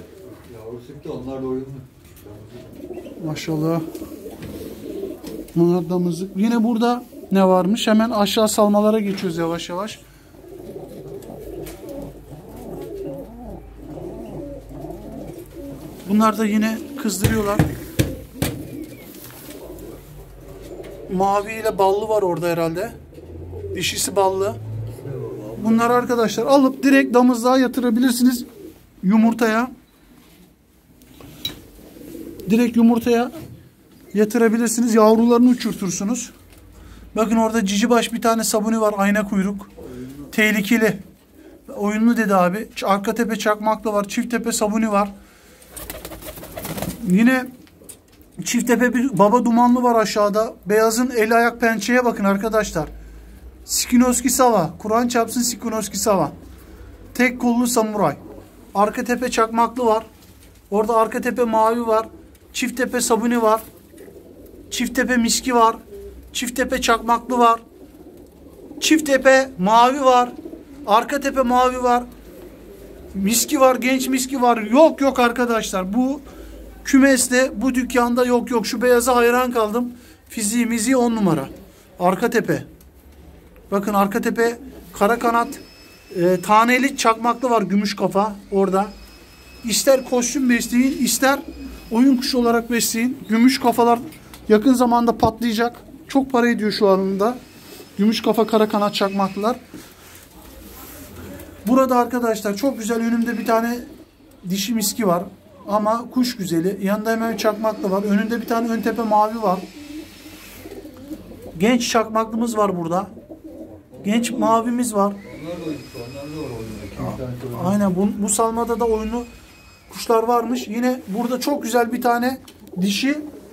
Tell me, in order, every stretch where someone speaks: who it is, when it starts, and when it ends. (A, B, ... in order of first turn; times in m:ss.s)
0:00.4-0:02.7 A
0:03.2-0:03.8 B
0:05.5-0:10.0 B
0:16.0-0:17.7 B
0:21.1-0:22.9 B
0:23.7-0:24.6 B
0:25.2-0:26.0 A
0:25.6-0:28.5 B
0:29.0-0:29.7 B
0:32.4-0:33.3 B
0:34.1-0:36.3 B
0:37.1-0:39.7 B
0:40.3-0:41.0 B
0:41.7-0:45.1 B
0:47.0-0:47.5 B
0:48.4-0:52.9 B
0:53.6-0:56.3 B
0:57.1-0:58.2 B
0:58.7-1:00.0 B
1:00.7-1:03.6 B
1:04.7-1:05.8 B
1:06.3-1:07.6 B
1:08.8-1:10.3 B
1:10.8-1:12.1 B
1:13.1-1:16.2 B
1:16.8-1:22.7 B
1:23.7-1:28.9 B
1:29.6-1:37.4 B
1:38.0-1:39.6 B
1:41.6-1:43.9 B
1:44.4-1:49.6 B
1:51.5-1:53.1 B
1:54.0-1:54.6 A
1:54.0-1:55.2 B
1:55.2-1:57.8 A
1:57.0-1:59.3 B
1:59.9-2:03.2 B